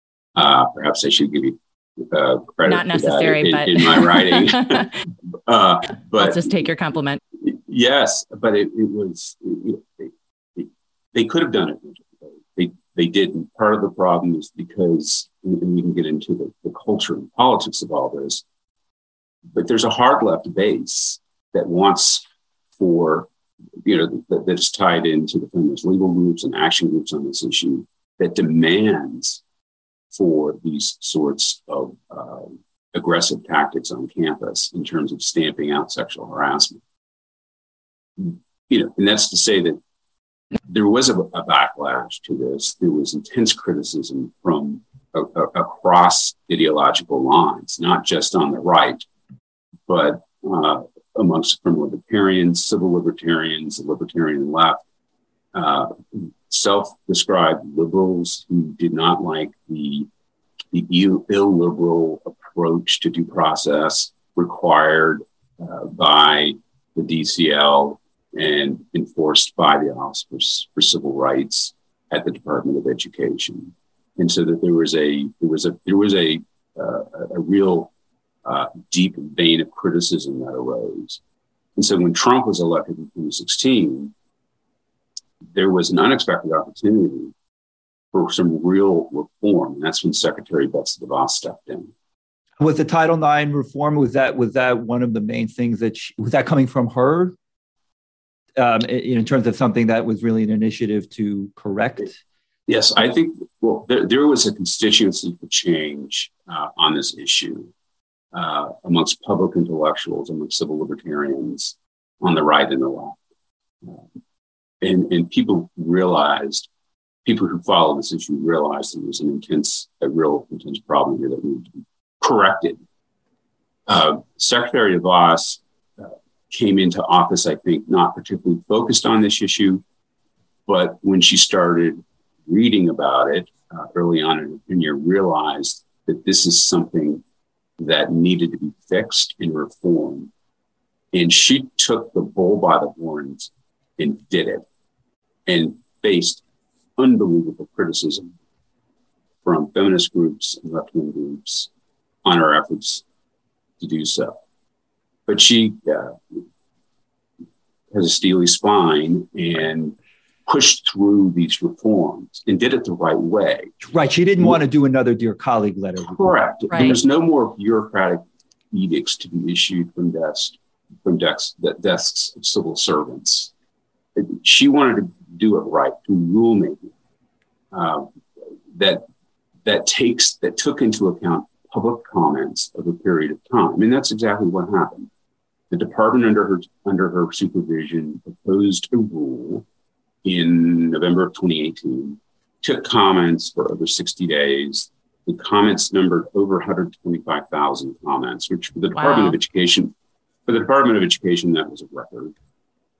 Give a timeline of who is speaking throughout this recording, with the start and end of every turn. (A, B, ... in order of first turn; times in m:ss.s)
0:00.4-0:04.9 A
0:02.6-0:04.9 B
0:05.5-0:06.6 A
0:06.2-0:07.2 B
0:07.4-0:18.4 A
0:19.5-0:22.2 A
0:22.8-0:23.3 A
0:23.8-0:29.4 A
0:30.1-0:36.8 A
0:38.2-0:39.8 A
0:40.7-0:49.0 A
0:49.9-0:54.8 A
0:55.5-1:00.1 A
1:00.7-1:17.9 A
1:18.4-1:21.2 A
1:21.8-1:24.1 A
1:25.5-1:27.3 A
1:28.1-1:31.9 A
1:32.6-1:37.3 C
1:38.6-1:42.2 C
1:42.7-1:47.7 A
1:48.3-1:53.2 A
1:54.8-1:56.7 A
1:57.2-2:02.8 A
2:03.9-2:09.8 A
2:10.7-2:17.2 A
2:17.8-2:20.3 A
2:21.1-2:24.6 A
2:25.5-2:26.4 A
2:27.0-2:28.3 A
2:29.4-2:31.7 A
2:32.2-2:33.0 A
2:33.8-2:34.4 A
2:35.3-2:36.4 A
2:37.9-2:43.8 A
2:43.8-2:46.4 C
2:46.0-2:53.5 A
2:54.2-2:56.9 A
2:57.7-2:58.1 A
2:58.7-2:59.0 A
2:59.6-3:05.1 A
3:05.7-3:09.6 A
3:10.2-3:19.9 A
3:19.0-3:19.4 B
3:20.5-3:22.3 A